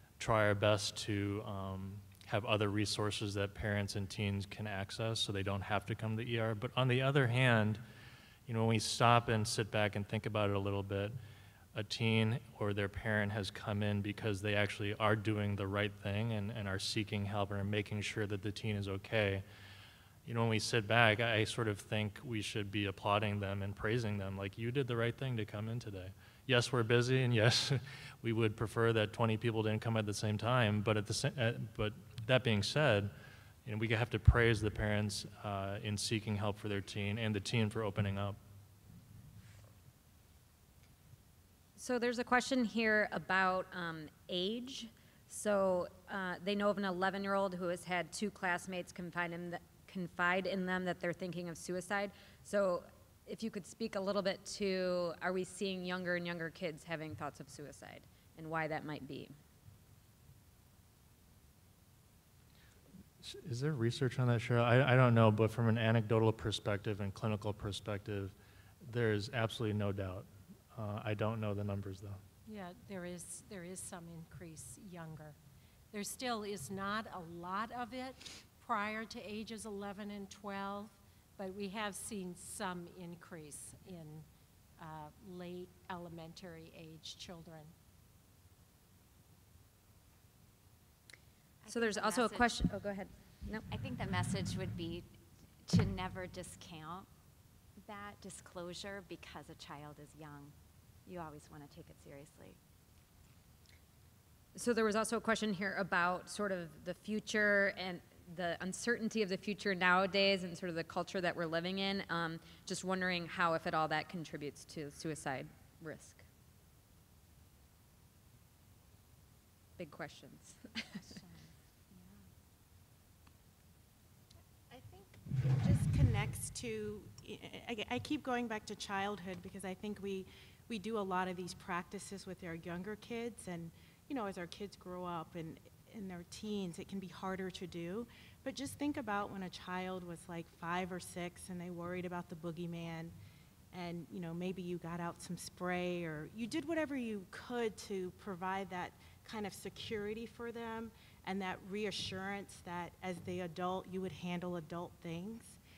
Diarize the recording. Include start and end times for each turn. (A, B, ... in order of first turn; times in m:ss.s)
0:00.2-0:07.8 A
0:08.5-0:11.2 A
0:11.8-0:19.4 A
0:20.3-0:33.1 A
0:33.6-0:38.4 A
0:41.8-0:59.3 B
1:03.2-1:12.2 A
1:12.5-1:15.4 C
1:15.9-1:24.3 C
1:24.8-1:27.7 C
1:31.6-1:32.6 D
1:31.7-1:33.6 B
1:33.7-1:35.1 D
1:35.6-1:37.1 D
1:37.8-1:40.6 D
1:41.1-1:42.6 D
1:44.6-1:56.2 B
1:59.8-2:01.0 B
2:01.1-2:02.3 D
2:04.7-2:23.1 E
2:23.7-2:35.6 E